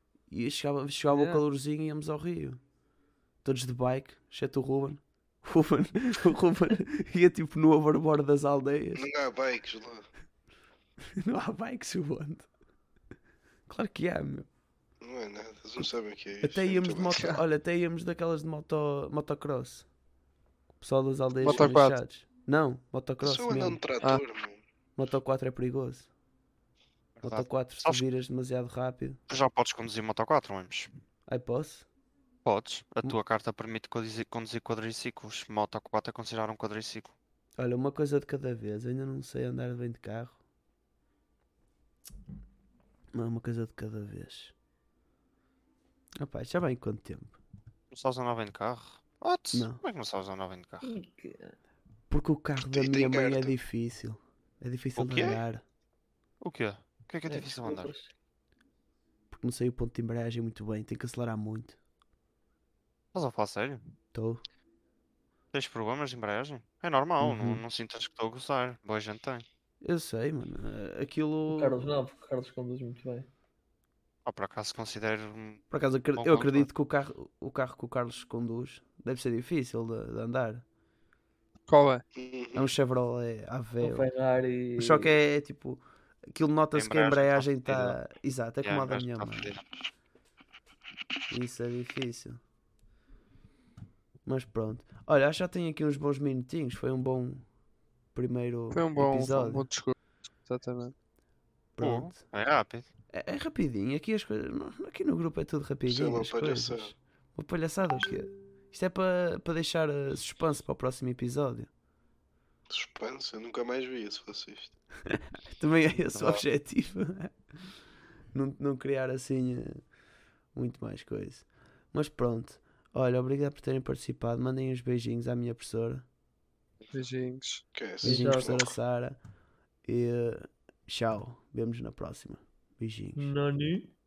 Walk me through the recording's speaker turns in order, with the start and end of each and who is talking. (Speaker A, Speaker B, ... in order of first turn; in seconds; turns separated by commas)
Speaker A: 0.3-2.6, Speaker B: 1.1-1.4, Speaker A: 3.4-9.1, Speaker C: 8.9-10.1, Speaker A: 11.2-12.5, Speaker A: 13.7-14.5, Speaker C: 15.0-17.3, Speaker A: 16.4-19.9, Speaker A: 20.8-23.8, Speaker B: 21.4-22.0, Speaker C: 21.4-21.7, Speaker C: 23.2-24.6, Speaker A: 25.0-26.1, Speaker D: 27.1-28.1, Speaker A: 27.2-29.2, Speaker D: 29.3-30.9, Speaker A: 31.3-31.9, Speaker D: 32.5-37.1, Speaker A: 37.6-40.4, Speaker A: 43.1-44.5, Speaker A: 46.2-47.4, Speaker D: 47.9-50.9, Speaker A: 49.5-49.8, Speaker E: 50.8-51.5, Speaker A: 52.1-55.6, Speaker C: 52.7-53.6, Speaker D: 55.0-55.4, Speaker D: 56.4-58.0, Speaker E: 57.3-58.1, Speaker A: 59.3-61.8, Speaker D: 63.1-63.8, Speaker A: 64.1-64.4, Speaker D: 65.5-69.5, Speaker A: 67.2-67.6, Speaker A: 69.8-72.0, Speaker E: 71.5-73.3, Speaker D: 74.3-76.7, Speaker A: 75.7-80.6, Speaker B: 81.7-82.0, Speaker C: 82.2-82.7, Speaker A: 82.5-84.1, Speaker E: 83.8-85.1, Speaker A: 84.8-89.5, Speaker D: 86.7-88.0, Speaker D: 88.6-89.8, Speaker A: 91.3-92.4, Speaker A: 94.3-97.5, Speaker A: 98.1-99.7, Speaker B: 98.7-100.0, Speaker B: 100.5-100.9, Speaker A: 101.8-102.2, Speaker D: 101.8-102.9, Speaker A: 103.1-111.7, Speaker C: 105.9-106.9, Speaker C: 112.7-114.7, Speaker A: 115.1-117.3, Speaker D: 116.0-116.4, Speaker A: 118.3-119.8, Speaker A: 120.5-126.0, Speaker B: 126.9-127.6, Speaker C: 127.8-128.7, Speaker A: 128.0-129.2, Speaker E: 128.0-128.6, Speaker A: 129.8-133.3, Speaker E: 133.2-133.9